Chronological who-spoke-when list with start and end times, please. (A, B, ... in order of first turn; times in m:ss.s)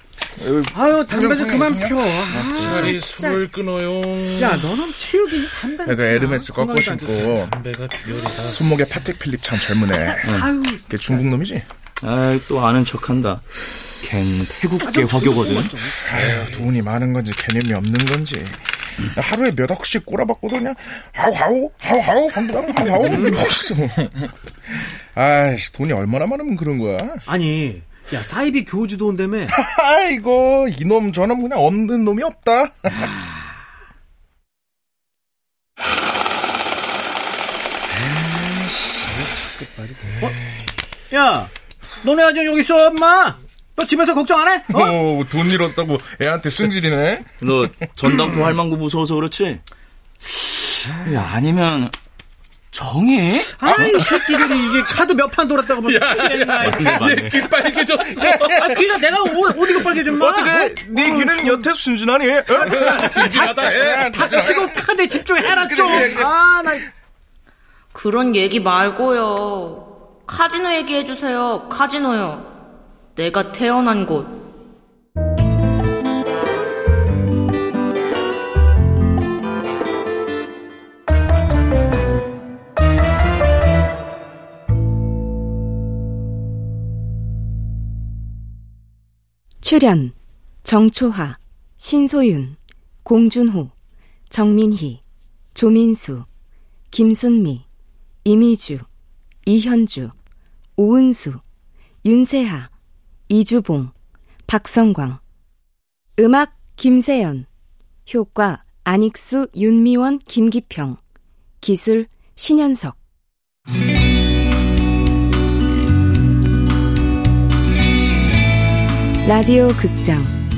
0:00.4-0:02.8 A
0:00.7-0:03.5 B
0:02.7-0:04.6 C
0:04.4-0:07.4 B
0:05.8-0:07.6 A
0:07.1-0:08.7 C
0:08.5-0:11.6 A
0:10.0-0:11.3 B
0:12.0-0:13.4 D
0:14.0-0:15.8 D
0:14.8-0:16.0 B
0:16.1-0:27.2 A
0:16.2-0:16.6 C
0:23.0-0:23.4 B
0:27.3-0:29.6 B
0:29.5-0:33.1 A
0:41.1-0:41.5 B
0:42.0-0:45.0 B
0:44.7-0:47.3 A
0:47.4-0:49.6 D
0:50.5-0:51.9 D
0:52.7-0:54.2 D
0:53.6-0:56.9 B
0:55.9-0:58.4 C
0:56.6-0:57.7 D
0:58.2-0:58.8 A
0:58.2-1:01.7 B
0:59.4-1:06.4 A
1:02.5-1:06.8 B
1:02.7-1:04.0 C
1:07.9-1:12.5 E
1:13.2-1:14.3 E
1:29.6-1:33.7 F
1:34.3-1:35.0 F
1:35.6-1:36.3 F
1:36.9-1:37.6 F
1:38.2-1:38.9 F
1:39.5-1:40.1 F
1:40.8-1:41.4 F
1:42.0-1:42.7 F
1:43.3-1:43.9 F
1:44.5-1:45.2 F
1:46.2-1:47.5 F
1:48.1-1:51.0 F
1:51.6-1:53.0 F
1:59.2-2:00.4 F